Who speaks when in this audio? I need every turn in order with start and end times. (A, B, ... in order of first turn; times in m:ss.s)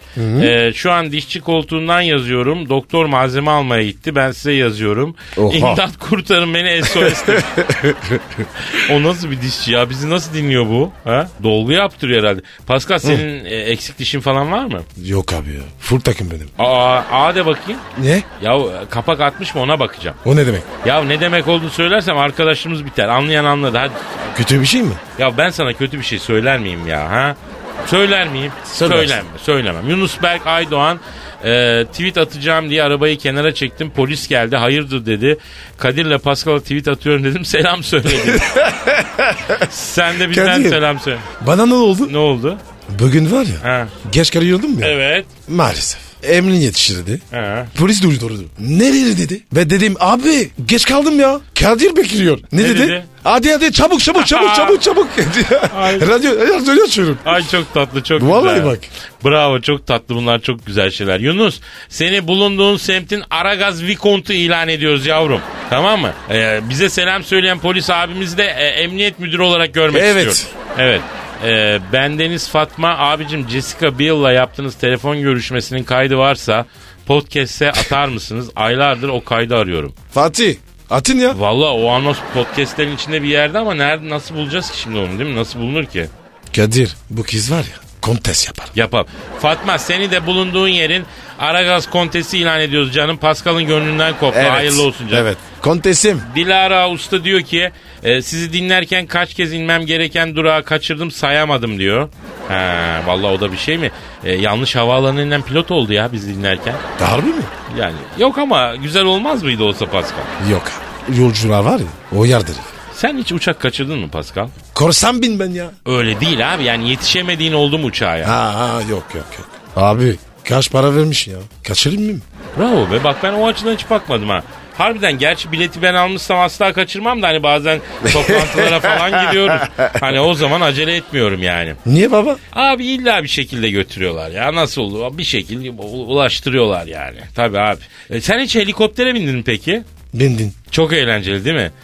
0:00.2-0:00.5 A
0:00.4-0:07.5 B
0:05.4-0:05.8 A
0:06.8-0:08.5 A
0:08.6-0:14.9 B
0:15.0-0:16.5 A
0:16.6-0:17.8 B
0:18.0-0:18.2 A
0:18.4-0:20.2 B
0:20.2-0:20.7 A
0:20.8-0:24.3 B
0:24.3-0:25.0 A
0:25.2-0:38.6 B
0:28.6-0:29.2 A
0:38.2-0:39.7 A
0:39.6-0:41.2 B
0:40.2-0:42.1 A
0:42.1-0:42.6 B
0:42.9-0:45.0 A
0:43.6-0:43.9 B
0:44.8-0:45.3 B
0:45.5-0:47.2 A
0:47.3-0:47.7 B
0:47.7-0:57.5 A
0:52.6-0:53.1 B
0:54.2-0:54.8 B
0:55.7-0:56.1 B
0:57.2-1:19.9 B
0:58.2-0:58.9 A
1:09.9-1:10.5 A
1:20.1-1:21.4 A
1:21.3-1:26.1 B
1:26.5-1:28.7 A
1:28.7-1:35.3 B
1:34.3-1:36.2 A
1:36.2-1:46.8 B
1:47.0-1:47.5 A
1:47.7-1:50.3 B
1:50.4-1:52.7 A
1:52.9-1:54.5 B
1:54.7-1:55.7 A
1:55.8-1:58.3 B
1:58.2-2:02.2 A
2:02.6-2:11.8 B
2:08.1-2:09.9 A
2:11.8-2:12.4 A
2:12.5-2:19.8 B
2:20.1-2:20.5 A
2:20.7-2:21.7 B